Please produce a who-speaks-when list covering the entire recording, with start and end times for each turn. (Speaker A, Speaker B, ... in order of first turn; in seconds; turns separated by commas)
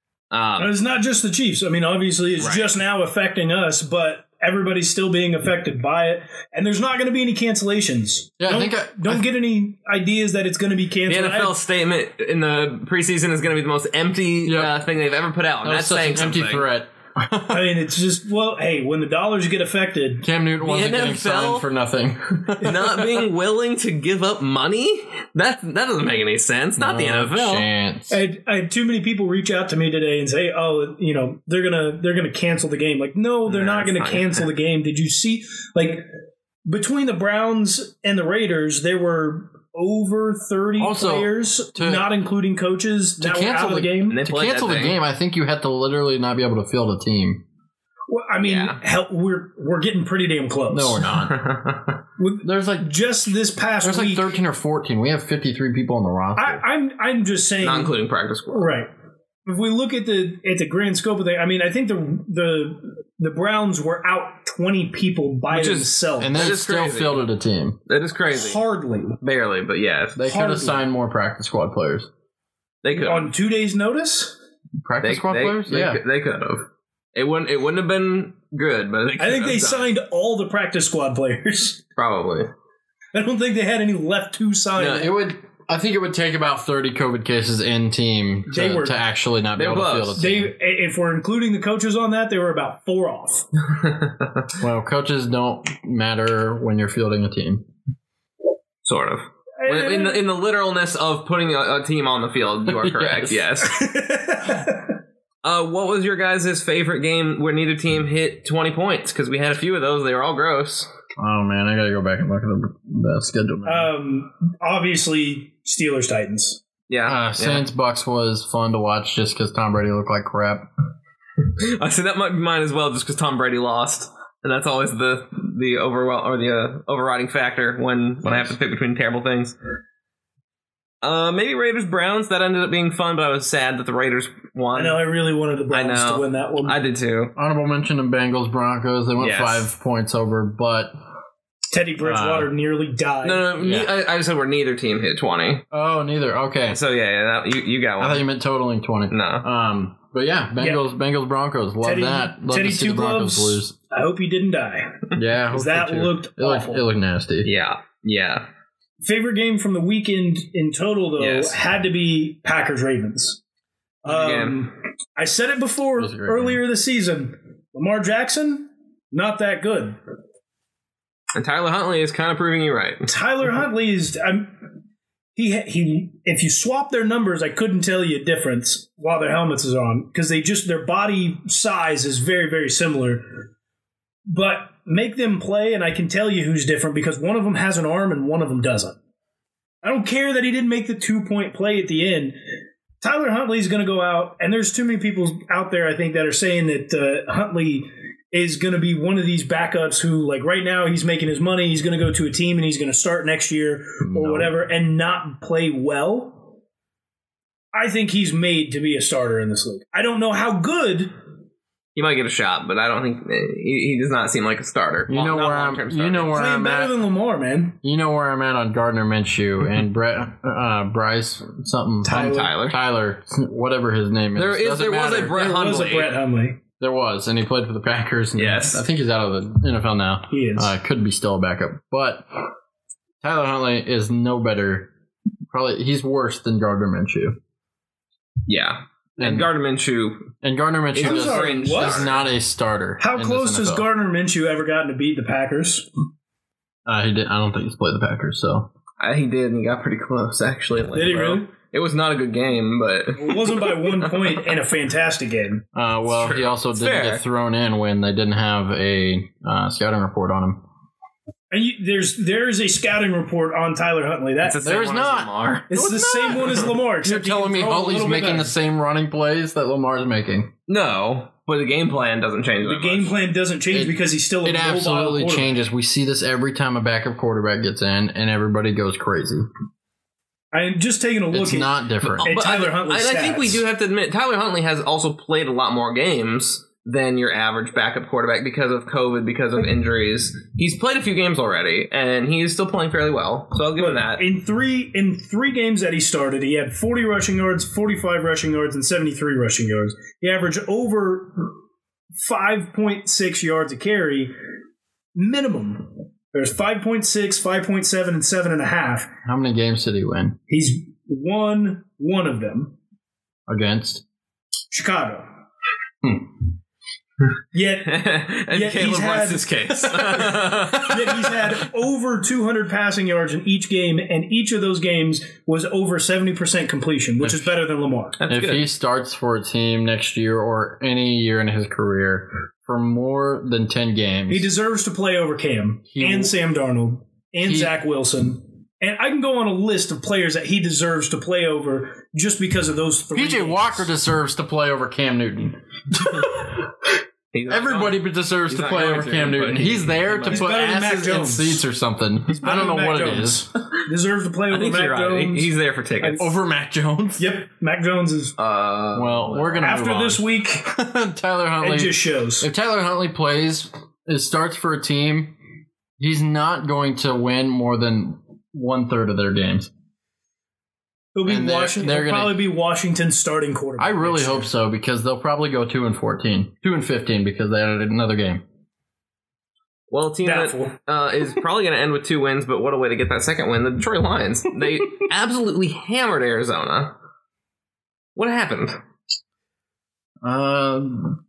Speaker A: 0.3-0.7, Speaker B: 0.6-11.6, Speaker A: 2.4-2.8, Speaker C: 8.4-9.2, Speaker A: 11.1-16.6, Speaker C: 14.4-14.7, Speaker C: 15.6-17.7, Speaker B: 17.5-20.2, Speaker C: 20.2-23.1, Speaker A: 20.6-21.7, Speaker A: 22.6-27.7, Speaker C: 26.8-28.2, Speaker B: 28.1-36.0, Speaker A: 33.5-34.5, Speaker B: 36.6-44.2, Speaker C: 40.8-42.1, Speaker C: 43.2-47.4, Speaker A: 44.1-45.0, Speaker B: 48.1-51.1, Speaker A: 48.4-48.8, Speaker C: 50.7-51.4, Speaker A: 51.2-52.0, Speaker B: 52.2-54.3, Speaker C: 52.4-52.9, Speaker C: 53.8-56.6, Speaker B: 56.4-57.9, Speaker A: 57.6-58.7, Speaker B: 58.5-58.9, Speaker B: 59.5-66.5, Speaker A: 65.5-67.2, Speaker C: 66.2-67.8, Speaker A: 67.9-68.6, Speaker B: 68.3-69.2, Speaker A: 69.2-70.2, Speaker C: 70.2-72.1, Speaker B: 70.2-70.8, Speaker A: 72.8-73.3, Speaker B: 72.9-74.3, Speaker C: 74.8-76.0, Speaker A: 75.0-79.9, Speaker B: 79.2-81.8, Speaker A: 82.0-82.5, Speaker B: 83.1-85.1, Speaker C: 84.8-90.5, Speaker B: 88.5-89.0, Speaker A: 89.5-90.2, Speaker B: 90.2-93.5, Speaker A: 93.8-94.5, Speaker C: 94.6-97.7, Speaker A: 98.8-103.8, Speaker B: 99.6-100.2, Speaker C: 102.8-103.3, Speaker B: 103.6-104.8, Speaker A: 105.4-110.9, Speaker C: 111.2-113.9, Speaker B: 113.6-116.6, Speaker A: 116.9-117.6, Speaker C: 117.0-120.7, Speaker A: 121.6-129.5, Speaker C: 128.2-128.5, Speaker A: 131.0-135.0, Speaker B: 134.7-136.8, Speaker A: 135.7-137.3, Speaker C: 137.3-140.9, Speaker A: 139.2-139.7, Speaker B: 141.7-143.4, Speaker C: 142.0-142.5, Speaker A: 143.2-145.6, Speaker C: 143.6-143.9, Speaker C: 145.7-146.8, Speaker A: 146.7-148.2, Speaker C: 148.0-153.7, Speaker A: 149.1-149.4, Speaker B: 151.8-156.8, Speaker C: 155.1-157.5, Speaker A: 157.4-158.4, Speaker B: 159.0-163.4, Speaker A: 161.2-161.6, Speaker B: 164.0-170.0, Speaker A: 164.1-164.6, Speaker C: 166.0-166.6, Speaker A: 171.3-173.1, Speaker B: 173.1-174.5, Speaker B: 175.3-183.2, Speaker B: 184.3-189.0, Speaker B: 189.8-192.3, Speaker B: 193.0-206.4, Speaker C: 204.0-204.5, Speaker B: 207.7-211.1, Speaker A: 211.9-216.4, Speaker C: 215.1-217.0, Speaker B: 216.3-217.8, Speaker C: 217.8-225.4, Speaker B: 222.0-222.5, Speaker A: 222.1-222.8, Speaker A: 224.3-226.1, Speaker B: 225.3-226.6, Speaker C: 226.8-232.3, Speaker A: 228.3-228.8, Speaker B: 230.3-230.7, Speaker C: 233.2-234.9, Speaker C: 235.5-237.4, Speaker A: 238.4-240.3, Speaker C: 239.2-239.5, Speaker C: 240.4-243.8, Speaker A: 240.9-242.2, Speaker B: 241.0-242.2, Speaker B: 243.0-245.9, Speaker C: 246.8-248.7, Speaker A: 249.0-254.4, Speaker B: 250.9-251.5, Speaker B: 253.2-255.6, Speaker C: 255.7-260.6, Speaker A: 256.1-257.2, Speaker B: 261.5-264.6, Speaker A: 264.4-265.7, Speaker C: 264.6-270.5, Speaker B: 265.7-268.5, Speaker A: 270.7-273.1, Speaker B: 272.6-275.6, Speaker C: 273.7-279.4, Speaker B: 280.5-281.7, Speaker C: 281.3-282.3, Speaker A: 282.0-294.2, Speaker B: 282.2-283.6, Speaker B: 293.8-301.5, Speaker B: 302.2-304.3, Speaker B: 305.1-309.1, Speaker C: 309.2-310.4, Speaker B: 310.5-312.7, Speaker C: 313.5-314.0, Speaker B: 314.7-315.3, Speaker C: 316.0-316.3, Speaker B: 317.5-319.5, Speaker A: 317.9-321.1, Speaker B: 320.4-328.2, Speaker C: 327.2-327.5, Speaker A: 328.2-328.6, Speaker C: 328.3-334.5, Speaker B: 334.3-343.9, Speaker C: 335.9-336.3, Speaker C: 337.4-337.7, Speaker C: 343.1-346.7, Speaker A: 347.3-350.5, Speaker C: 347.5-353.4, Speaker B: 350.3-351.6, Speaker B: 352.3-356.3, Speaker A: 354.5-356.3, Speaker C: 356.2-357.3, Speaker B: 357.2-358.3, Speaker A: 358.4-359.7, Speaker C: 358.9-365.3, Speaker B: 359.6-360.6, Speaker B: 361.6-362.5, Speaker C: 366.0-369.7, Speaker B: 371.1-374.5, Speaker C: 371.3-372.4, Speaker C: 373.8-378.4, Speaker A: 379.9-386.9, Speaker B: 380.2-380.8, Speaker A: 388.1-388.8, Speaker C: 390.2-391.2